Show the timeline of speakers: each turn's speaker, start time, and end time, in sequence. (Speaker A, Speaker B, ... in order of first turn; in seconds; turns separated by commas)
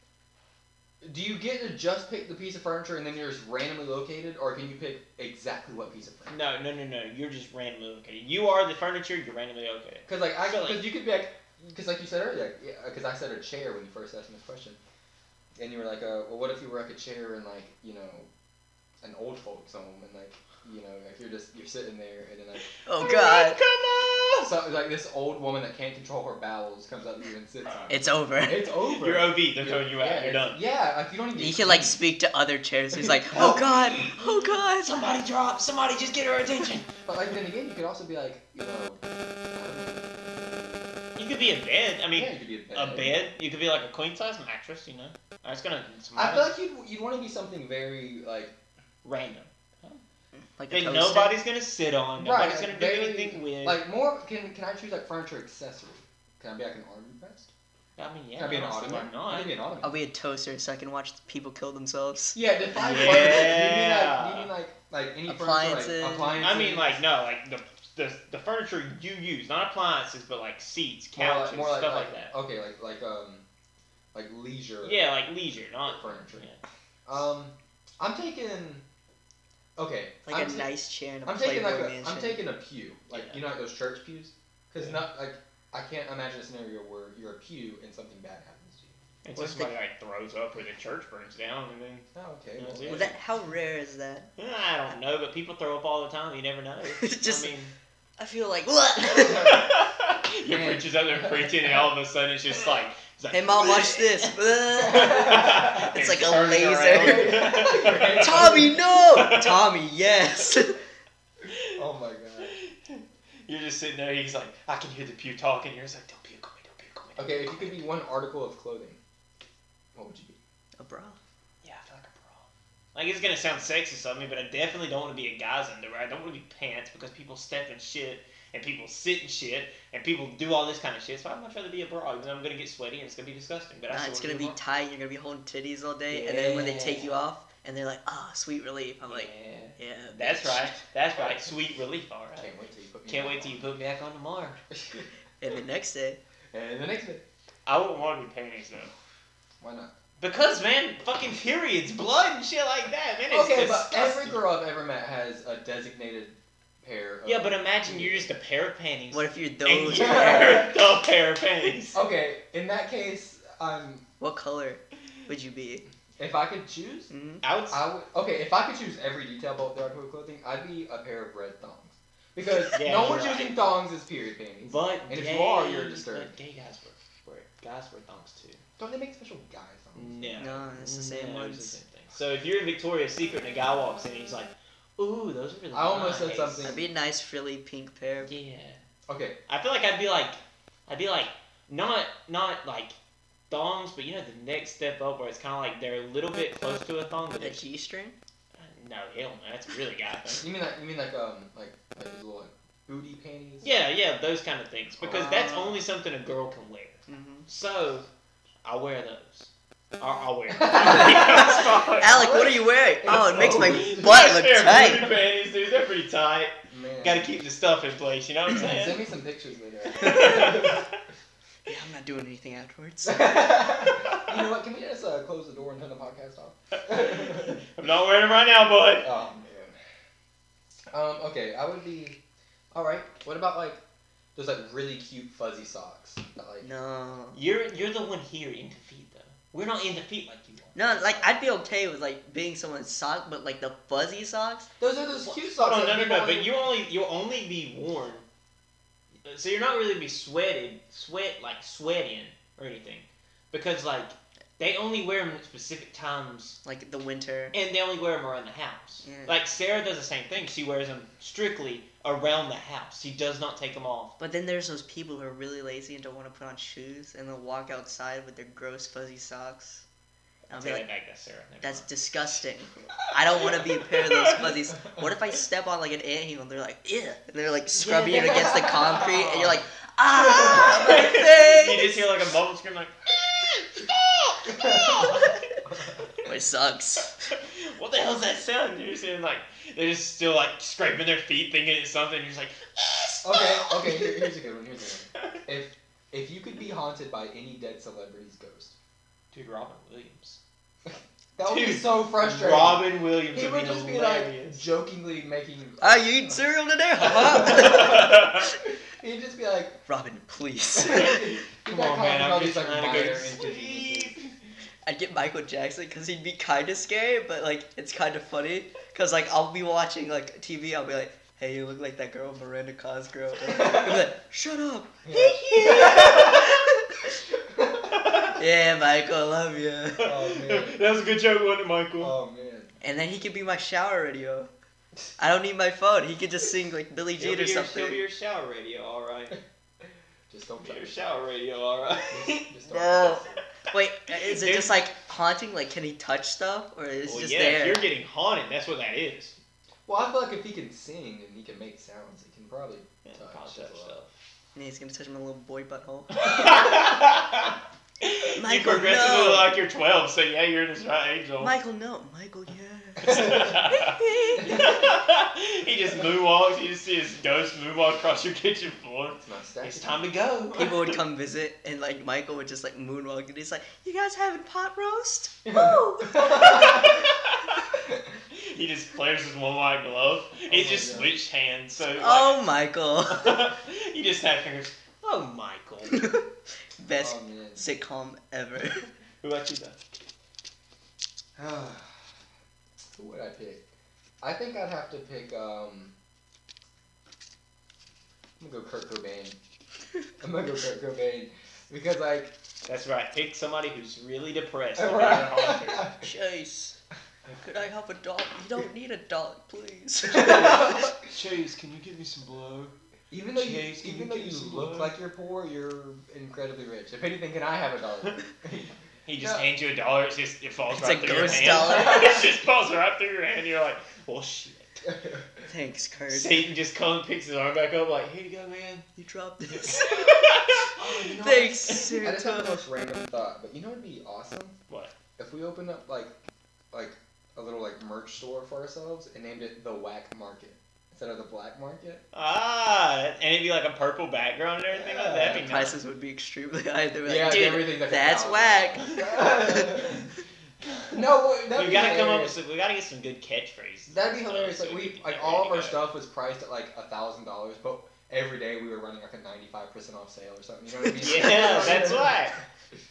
Speaker A: 1.0-6.3, Speaker B: 6.3-10.9, Speaker A: 10.1-14.8, Speaker A: 15.6-18.3, Speaker A: 19.0-23.1, Speaker C: 22.9-23.6, Speaker B: 22.9-24.5, Speaker A: 24.4-32.0, Speaker C: 27.9-28.7, Speaker B: 28.9-30.6, Speaker C: 31.4-35.0, Speaker A: 33.3-33.6, Speaker B: 33.3-36.9, Speaker A: 37.0-40.5, Speaker B: 41.1-46.5, Speaker A: 42.1-43.2, Speaker A: 46.1-48.5, Speaker B: 49.0-50.0, Speaker C: 50.6-51.4, Speaker B: 50.7-53.8, Speaker A: 52.2-57.5, Speaker B: 58.0-59.6, Speaker A: 58.4-60.0, Speaker C: 59.8-63.6, Speaker A: 62.3-67.0, Speaker B: 62.8-64.5, Speaker C: 65.3-66.4, Speaker B: 66.3-72.3, Speaker A: 71.2-73.4, Speaker A: 74.1-75.0, Speaker B: 74.8-76.6, Speaker A: 75.9-76.5, Speaker A: 77.0-78.8, Speaker A: 79.8-80.7, Speaker C: 80.2-82.4, Speaker A: 81.2-88.9, Speaker B: 83.1-83.4, Speaker B: 84.8-85.0, Speaker B: 89.2-93.2, Speaker C: 89.3-89.7, Speaker A: 92.1-93.2, Speaker C: 92.9-94.3, Speaker B: 94.4-97.7, Speaker C: 97.0-97.5, Speaker C: 98.2-99.7, Speaker B: 99.1-109.7, Speaker A: 100.5-101.8, Speaker C: 103.3-110.8, Speaker A: 104.8-105.9, Speaker A: 107.0-108.8, Speaker B: 111.4-111.8, Speaker A: 111.7-112.5, Speaker B: 112.4-117.9, Speaker A: 117.2-119.0, Speaker A: 119.9-120.4, Speaker C: 120.8-121.2, Speaker B: 121.6-134.6, Speaker C: 133.9-140.8, Speaker B: 136.1-137.2, Speaker B: 139.0-142.5, Speaker A: 141.2-141.4, Speaker A: 142.4-143.6, Speaker B: 143.1-144.6, Speaker C: 145.4-146.2, Speaker A: 146.5-147.2, Speaker B: 147.7-148.9, Speaker A: 149.6-149.9, Speaker B: 150.2-154.4, Speaker A: 153.3-158.3, Speaker B: 157.2-162.0, Speaker C: 159.1-160.7, Speaker A: 159.9-160.8, Speaker A: 161.9-164.0, Speaker C: 164.2-165.8, Speaker A: 166.2-167.1, Speaker C: 167.1-167.4, Speaker B: 167.4-167.8, Speaker A: 167.7-176.3, Speaker B: 172.7-173.7, Speaker B: 174.6-178.6, Speaker A: 178.8-180.3, Speaker B: 179.9-186.8, Speaker C: 180.4-181.8, Speaker A: 185.7-186.8, Speaker C: 186.6-188.3, Speaker B: 188.2-188.8, Speaker A: 189.1-189.3, Speaker B: 189.5-192.9, Speaker B: 193.5-197.6, Speaker C: 197.4-198.2, Speaker B: 198.6-200.5, Speaker A: 200.4-203.7, Speaker B: 203.6-208.1, Speaker A: 205.0-205.4, Speaker C: 205.1-205.8, Speaker C: 207.1-207.4, Speaker B: 208.6-212.2, Speaker A: 210.6-215.2, Speaker C: 210.8-215.1, Speaker B: 213.1-219.1, Speaker A: 216.7-217.3, Speaker A: 218.5-220.8, Speaker B: 219.9-220.9, Speaker C: 220.1-220.6, Speaker C: 221.7-223.7, Speaker A: 223.1-227.6, Speaker B: 223.9-224.3, Speaker B: 226.9-229.1, Speaker A: 229.0-229.8, Speaker A: 230.9-232.2, Speaker A: 232.7-233.8, Speaker A: 234.3-236.7, Speaker C: 236.6-237.4, Speaker B: 237.3-240.8, Speaker C: 240.7-244.7, Speaker A: 244.8-246.7, Speaker B: 245.2-248.2, Speaker B: 249.2-256.6, Speaker C: 256.6-257.6, Speaker B: 257.5-264.1, Speaker C: 259.0-259.3, Speaker C: 264.2-269.8, Speaker B: 270.5-271.9, Speaker C: 270.5-270.8, Speaker C: 271.6-282.1, Speaker B: 273.4-274.5, Speaker B: 277.8-279.6, Speaker A: 278.5-278.8, Speaker B: 280.2-285.4, Speaker A: 284.5-286.0, Speaker C: 286.2-287.2, Speaker B: 287.3-294.3, Speaker A: 293.2-298.7, Speaker B: 299.3-300.4, Speaker A: 300.8-309.8, Speaker B: 301.4-304.6, Speaker C: 305.8-308.5, Speaker B: 307.1-308.5, Speaker C: 309.9-311.2, Speaker A: 310.7-314.1, Speaker B: 311.6-314.3, Speaker C: 314.9-326.9, Speaker A: 323.5-324.0, Speaker A: 325.0-326.5, Speaker B: 325.1-326.6, Speaker A: 327.5-327.9, Speaker C: 328.3-330.1, Speaker A: 330.0-330.8, Speaker B: 330.0-332.1, Speaker A: 332.0-332.7, Speaker C: 332.8-334.5, Speaker C: 335.2-338.0, Speaker B: 337.2-339.4, Speaker A: 340.3-341.0, Speaker B: 340.6-343.4, Speaker A: 342.1-343.4, Speaker C: 342.7-347.9, Speaker B: 344.1-344.8, Speaker B: 347.1-349.4, Speaker A: 349.9-354.0, Speaker B: 353.0-354.1, Speaker C: 354.5-356.9, Speaker B: 356.1-361.5, Speaker C: 358.3-359.5, Speaker C: 361.4-364.9, Speaker B: 363.0-371.0, Speaker A: 369.2-370.1, Speaker C: 370.5-376.7, Speaker A: 375.4-377.1, Speaker B: 376.2-377.6, Speaker B: 378.3-382.4, Speaker A: 380.5-381.1, Speaker C: 382.0-383.5, Speaker B: 383.1-386.1, Speaker C: 385.9-386.2, Speaker C: 386.8-388.9, Speaker A: 387.0-387.7, Speaker B: 389.2-389.8, Speaker A: 391.4-392.1, Speaker A: 392.9-393.6, Speaker A: 394.2-395.9, Speaker A: 398.4-399.4, Speaker A: 400.2-402.3, Speaker B: 402.6-405.9, Speaker A: 404.8-406.0, Speaker C: 405.8-406.8, Speaker C: 407.4-410.9, Speaker A: 410.1-411.1, Speaker B: 410.3-412.7, Speaker A: 413.1-419.5, Speaker B: 413.3-414.9, Speaker B: 419.1-424.8, Speaker C: 420.7-422.2, Speaker A: 421.2-422.3, Speaker A: 424.9-425.2, Speaker C: 425.5-426.5, Speaker B: 426.1-428.9, Speaker C: 428.9-430.5, Speaker B: 429.5-430.7, Speaker A: 430.7-434.6, Speaker C: 431.2-432.6, Speaker A: 435.2-436.1, Speaker A: 436.7-442.0, Speaker B: 442.1-445.8, Speaker A: 444.7-445.6, Speaker C: 445.2-450.0, Speaker A: 447.1-450.1, Speaker B: 448.9-449.1, Speaker B: 450.7-455.8, Speaker A: 450.9-452.4, Speaker A: 453.9-462.4, Speaker B: 461.0-462.4